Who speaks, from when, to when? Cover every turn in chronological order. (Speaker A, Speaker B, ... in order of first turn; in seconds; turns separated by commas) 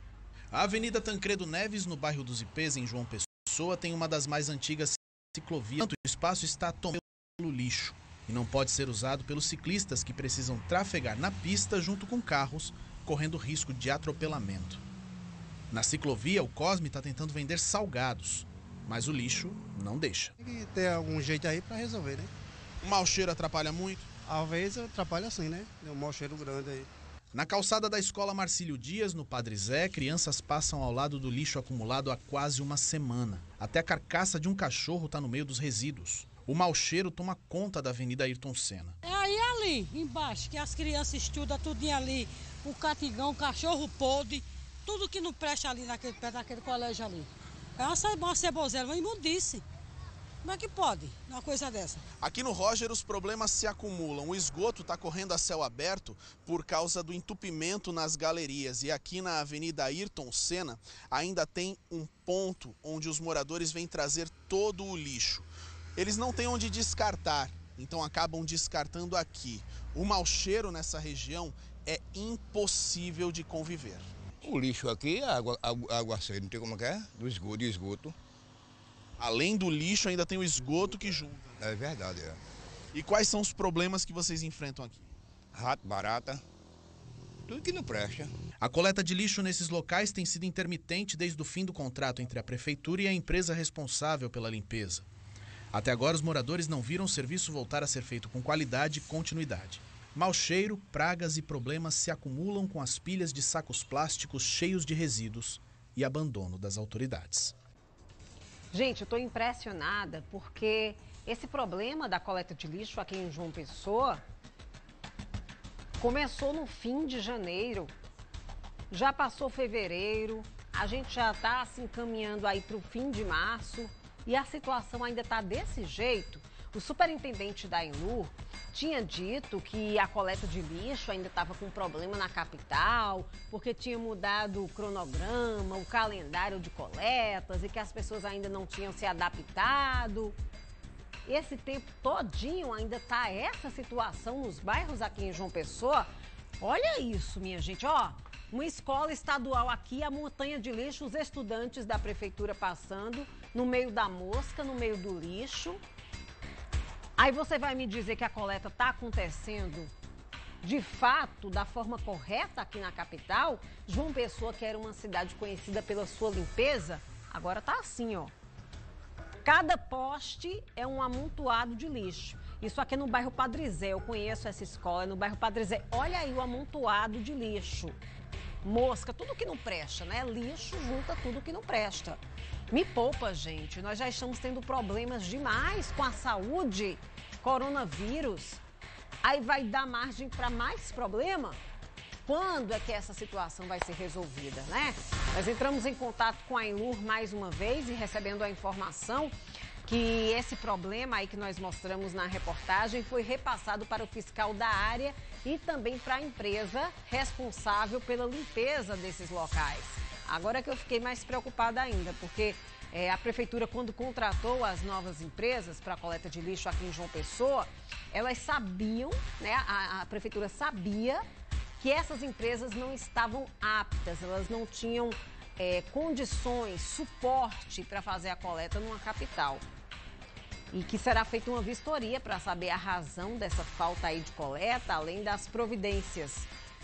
Speaker A: 0.5-14.8, Speaker A: 15.7-20.3, Speaker B: 20.4-22.3, Speaker A: 22.8-24.0, Speaker B: 24.2-26.9, Speaker A: 27.3-39.0, Speaker C: 39.0-49.6, Speaker C: 50.4-52.0, Speaker A: 52.2-74.1, Speaker D: 74.4-78.2, Speaker A: 79.2-81.5, Speaker D: 81.6-82.4, Speaker A: 83.0-85.0, Speaker D: 85.5-86.4, Speaker D: 87.5-88.3, Speaker A: 88.6-95.0, Speaker A: 95.7-107.5, Speaker E: 108.7-114.2, Speaker E: 116.0-117.9, Speaker E: 118.9-140.3, Speaker E: 141.2-146.1, Speaker E: 146.6-155.8, Speaker E: 157.2-159.9, Speaker E: 160.6-168.3, Speaker E: 169.4-178.0, Speaker E: 178.6-182.2, Speaker E: 182.7-188.6, Speaker E: 189.2-191.6, Speaker E: 192.2-199.3, Speaker E: 199.8-221.2, Speaker E: 221.8-229.6, Speaker E: 230.7-236.5